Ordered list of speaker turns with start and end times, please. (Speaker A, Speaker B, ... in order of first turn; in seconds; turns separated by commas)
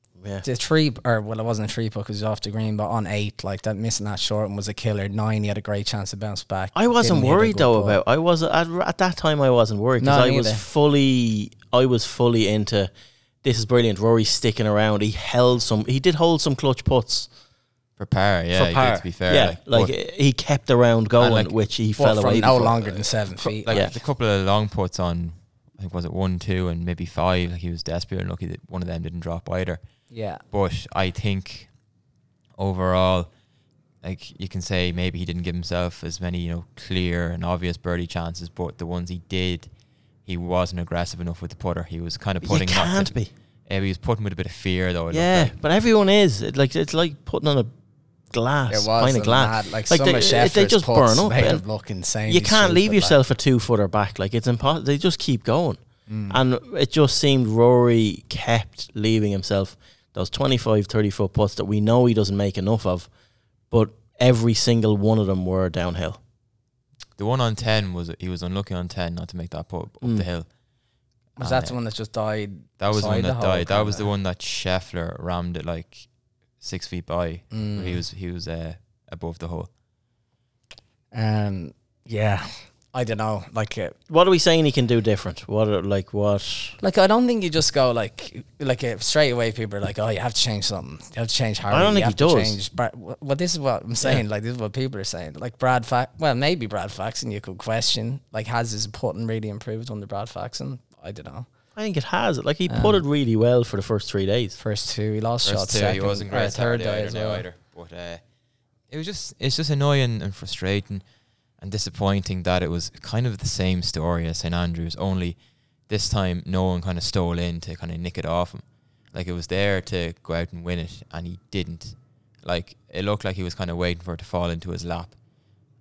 Speaker A: 0.2-0.4, Speaker B: 0.4-8.0, Speaker A: 6.8-12.9, Speaker B: 10.0-10.6, Speaker A: 13.4-17.3, Speaker C: 18.0-19.9, Speaker A: 18.5-23.1, Speaker C: 21.2-21.5, Speaker B: 22.0-23.9, Speaker C: 23.4-31.7, Speaker A: 23.7-24.0, Speaker B: 30.1-30.4, Speaker C: 32.6-33.3, Speaker C: 34.0-45.5, Speaker A: 42.4-43.3, Speaker A: 45.1-47.7, Speaker A: 48.3-51.6, Speaker B: 48.7-53.1, Speaker A: 52.3-63.1, Speaker B: 56.1-56.4, Speaker A: 63.7-66.2, Speaker C: 67.2-70.5, Speaker C: 71.4-71.7, Speaker B: 71.4-74.1, Speaker C: 72.8-79.7, Speaker B: 77.5-78.0, Speaker B: 81.1-84.0, Speaker A: 84.1-86.8, Speaker B: 86.8-101.5, Speaker A: 91.7-92.6, Speaker A: 101.8-104.6, Speaker B: 102.7-103.0, Speaker B: 104.6-107.5, Speaker C: 105.5-108.3, Speaker C: 108.9-111.0, Speaker C: 111.6-125.2